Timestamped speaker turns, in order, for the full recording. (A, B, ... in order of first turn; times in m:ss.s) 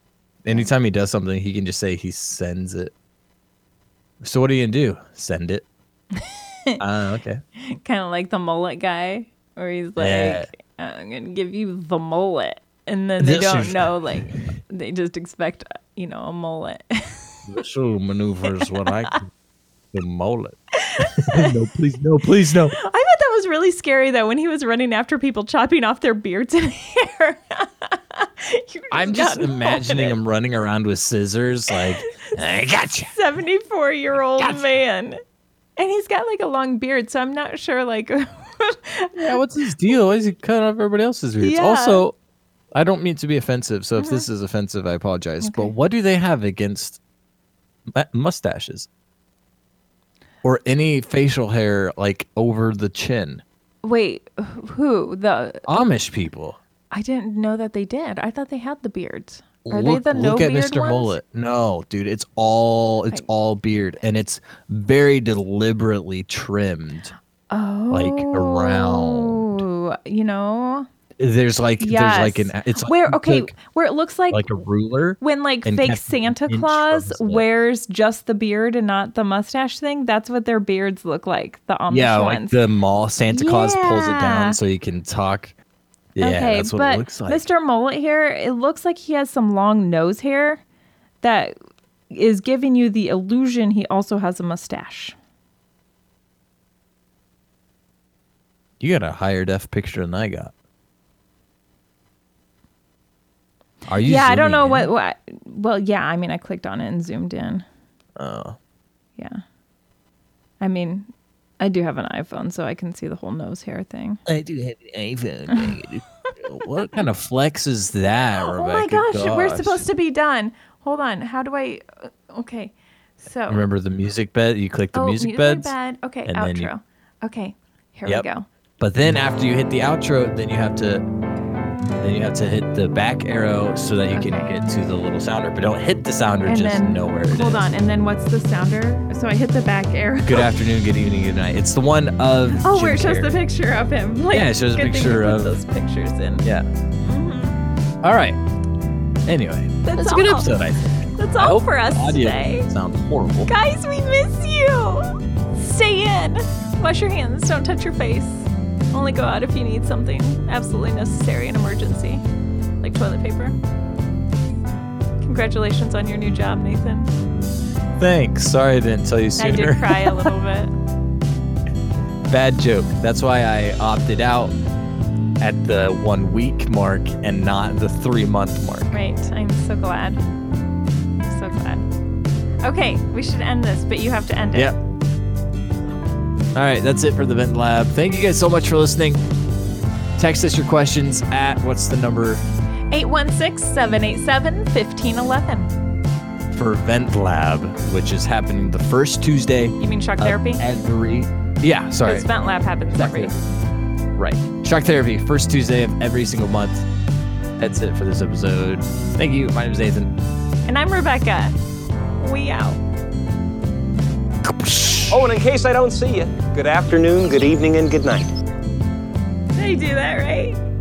0:00.4-0:02.9 A
0:04.2-0:05.6 A
0:06.2-0:06.8 B
0:06.8-0:07.4 A
0:07.7-0:17.3 B
0:10.0-0:10.5 A
0:13.2-0:14.5 A
0:17.5-0:19.3 A
0:18.5-0:18.9 B
0:19.9-0:22.8 A
0:20.8-0:21.6 B
0:22.8-0:30.2 B
0:28.9-0:33.1 A
0:31.7-0:32.4 B
0:33.1-0:35.2 B
0:34.4-0:34.6 A
0:35.8-0:39.4 B
0:39.2-0:42.1 A
0:41.4-0:42.0 B
0:42.7-0:47.0 A
0:44.0-0:44.3 B
0:45.4-0:45.7 B
0:47.9-0:48.9 A
0:50.4-0:53.4 A
0:53.8-0:55.6 B
0:55.6-0:56.6 A
0:56.9-1:01.2 B
0:59.6-1:07.1 A
1:07.5-1:10.9 B
1:07.9-1:09.6 A
1:11.2-1:13.5 A
1:11.8-1:14.5 B
1:14.3-1:17.5 A
1:15.2-1:22.6 B
1:21.9-1:25.6 A
1:23.3-1:24.6 B
1:26.1-1:27.4 A
1:26.2-1:30.6 B
1:31.2-1:31.6 B
1:32.1-1:35.2 B
1:38.8-1:40.5 A
1:43.9-1:44.9 A
1:44.0-1:47.6 B
1:48.2-1:48.6 A
1:50.6-1:54.2 B
1:54.3-1:59.8 A
1:56.3-1:56.7 B
1:58.4-2:03.6 B
2:03.5-2:05.7 A
2:04.9-2:08.5 B
2:06.3-2:06.7 A
2:08.8-2:11.0 A
2:12.0-2:17.7 A
2:14.1-2:14.5 B
2:16.4-2:20.5 B
2:20.3-2:23.4 A
2:22.6-2:26.4 B
2:24.3-2:25.5 A
2:26.4-2:26.7 A
2:27.0-2:27.6 B
2:28.0-2:28.4 A
2:29.3-2:33.5 A
2:29.8-2:30.5 B
2:31.2-2:32.7 B
2:33.5-2:42.2 B
2:42.8-2:43.6 B
2:45.2-2:47.1 B
2:48.0-2:50.3 A
2:49.4-2:50.7 B
2:52.3-2:54.6 A
2:55.4-2:58.9 A
2:58.9-3:00.2 B
3:01.3-3:01.8 B
3:02.6-3:04.7 B
3:06.5-3:09.2 A
3:10.2-3:12.4 A
3:12.9-3:15.7 B
3:16.5-3:22.3 A
3:19.8-3:20.6 B
3:22.0-3:23.3 B
3:22.9-3:23.4 A
3:24.2-3:26.9 A
3:27.6-3:30.1 A
3:30.7-3:31.6 B
3:32.2-3:32.8 B
3:35.2-3:36.2 C
3:36.7-3:38.2 C
3:39.6-3:40.6 B